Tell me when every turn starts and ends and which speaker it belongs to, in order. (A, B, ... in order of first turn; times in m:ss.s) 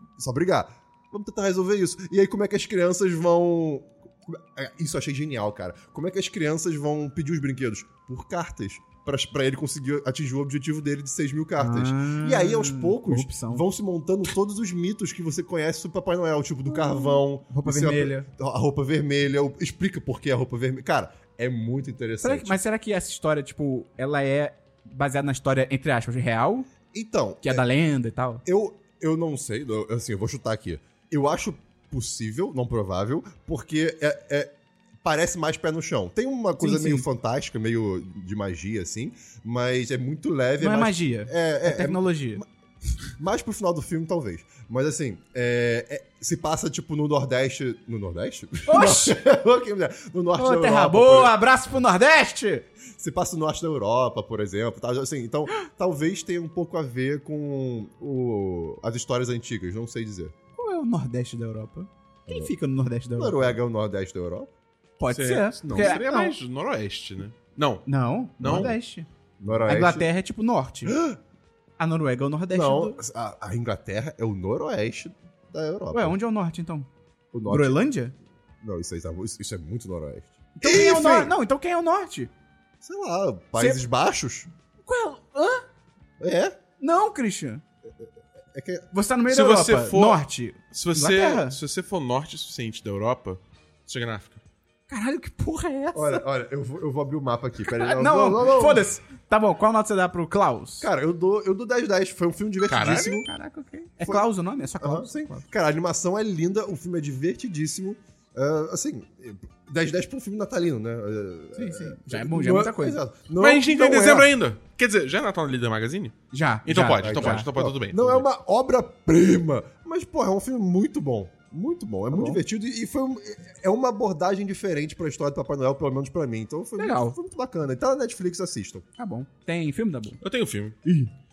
0:00.2-0:22.6 A
0:11.6-0:13.6 B
0:17.5-0:18.3 B
0:22.2-0:26.7 B
0:26.9-0:27.6 A
0:27.4-0:28.4 B
0:28.4-0:42.4 A
0:36.6-0:37.1 B
0:40.6-0:42.4 B
0:43.1-0:51.4 A
0:48.7-0:49.2 B
0:50.4-0:52.7 B
0:52.9-1:00.3 A
1:00.6-1:03.6 B
1:02.3-1:02.5 A
1:03.2-1:04.5 A
1:05.0-1:06.4 B
1:05.1-1:07.9 C
1:05.7-1:06.0 A
1:07.9-1:09.1 B
1:08.4-1:08.7 C
1:08.4-1:08.8 A
1:09.4-1:10.1 A
1:09.6-1:11.0 B
1:10.9-1:11.2 A
1:11.8-1:13.0 B
1:12.5-1:16.2 A
1:15.9-1:16.9 B
1:17.3-1:17.8 A
1:17.5-1:18.2 B
1:18.6-1:21.4 A
1:20.6-1:22.3 B
1:22.8-1:24.5 A
1:24.8-1:25.6 B
1:26.2-1:26.6 A
1:26.8-1:27.6 B
1:28.5-1:28.9 A
1:28.9-1:31.6 B
1:29.3-1:34.4 C
1:34.9-1:36.2 B
1:35.9-1:38.8 A
1:37.7-1:40.9 B
1:40.8-1:43.3 A
1:42.7-1:43.2 C
1:43.1-1:45.5 B
1:44.8-1:54.3 A
1:51.6-1:53.0 B
1:53.4-1:58.3 C
1:56.3-1:57.5 B
1:57.0-2:08.8 A
2:02.1-2:02.4 B
2:06.8-2:07.2 B
2:09.0-2:10.2 B
2:10.2-2:10.8 C